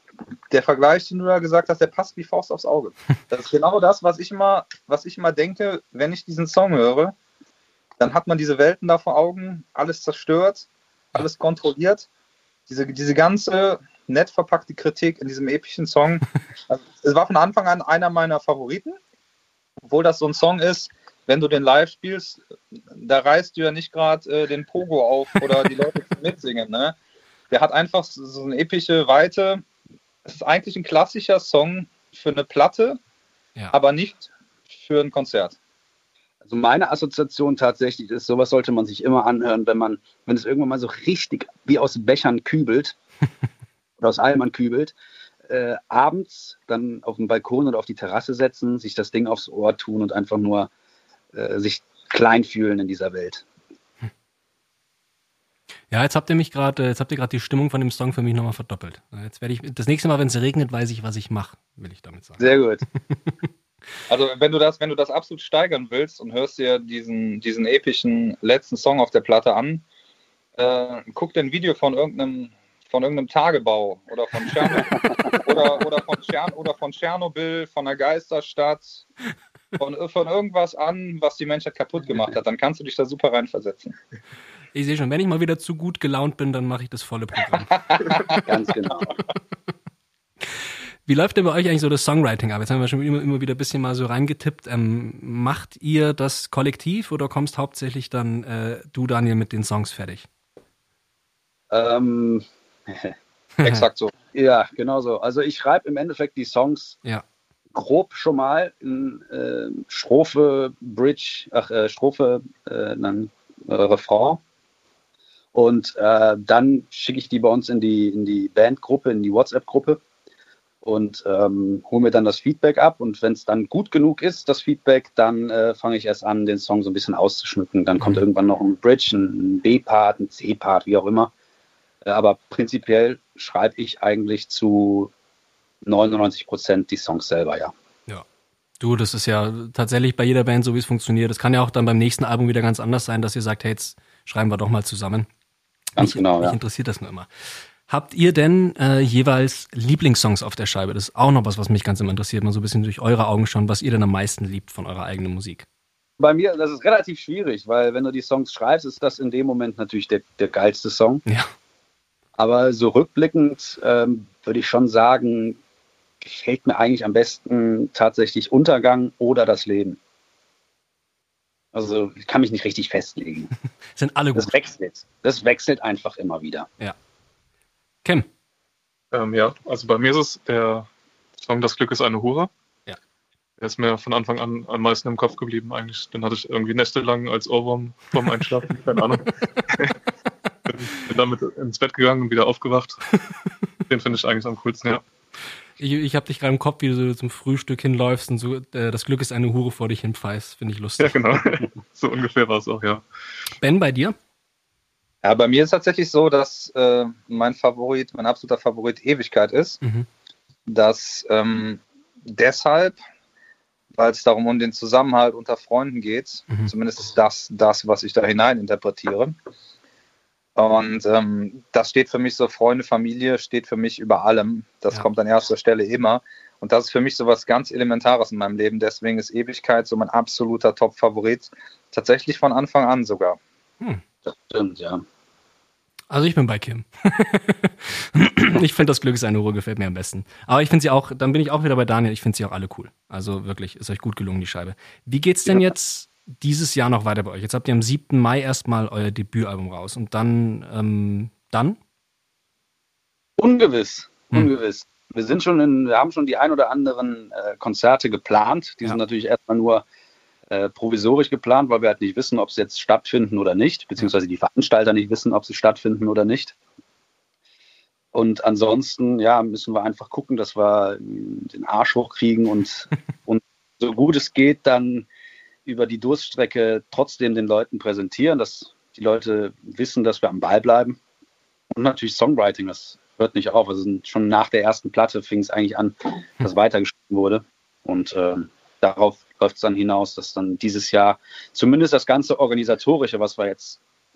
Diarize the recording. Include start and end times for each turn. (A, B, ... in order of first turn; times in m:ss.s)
0:00.5-0:07.2 A
0:08.0-0:12.1 A
0:12.7-0:19.0 A
0:19.8-0:22.4 A
0:22.9-0:27.0 A
0:27.5-0:29.6 A
0:30.3-0:33.0 A
0:33.7-0:35.6 A
0:36.4-0:43.0 B
0:44.0-0:44.9 B
0:45.5-0:50.7 B
0:51.3-0:53.4 B
0:55.9-1:02.5 C
1:02.4-1:02.8 B
1:03.1-1:03.5 C
1:04.1-1:09.8 A
1:10.6-1:19.0 A
1:14.9-1:15.4 B
1:19.8-1:24.0 A
1:24.7-1:28.4 C
1:28.0-1:28.4 A
1:28.4-1:29.2 B
1:30.5-1:40.3 C
1:41.7-1:43.1 B
1:43.6-1:43.8 C
1:43.6-1:44.1 A
1:44.3-1:47.0 B
1:47.7-1:54.4 B
1:55.5-2:00.0 B
2:00.8-2:11.3 B
2:12.0-2:15.1 B
2:15.8-2:17.7 B
2:18.8-2:25.3 C
2:26.0-2:35.7 C
2:26.0-2:26.6 B
2:36.2-2:41.2 B
2:42.4-2:45.6 B
2:46.2-2:50.0 B
2:51.7-2:53.5 B
2:54.0-2:54.5 C
2:54.4-2:56.7 B
2:59.1-3:00.9 D
3:01.4-3:02.5 D
3:03.6-3:10.0 D
3:10.7-3:13.0 D
3:13.9-3:15.0 D
3:15.8-3:21.2 C
3:21.0-3:23.0 D
3:23.6-3:24.2 C
3:25.2-3:29.8 A
3:29.8-3:30.1 C
3:30.7-3:33.0 A
3:33.9-3:39.4 A
3:40.6-3:53.4 A
3:54.3-3:55.0 B
3:56.1-4:11.8 C
4:13.4-4:19.8 B
4:20.5-4:26.6 B
4:28.1-4:35.1 B
4:35.6-4:41.0 B
4:41.7-4:53.8 B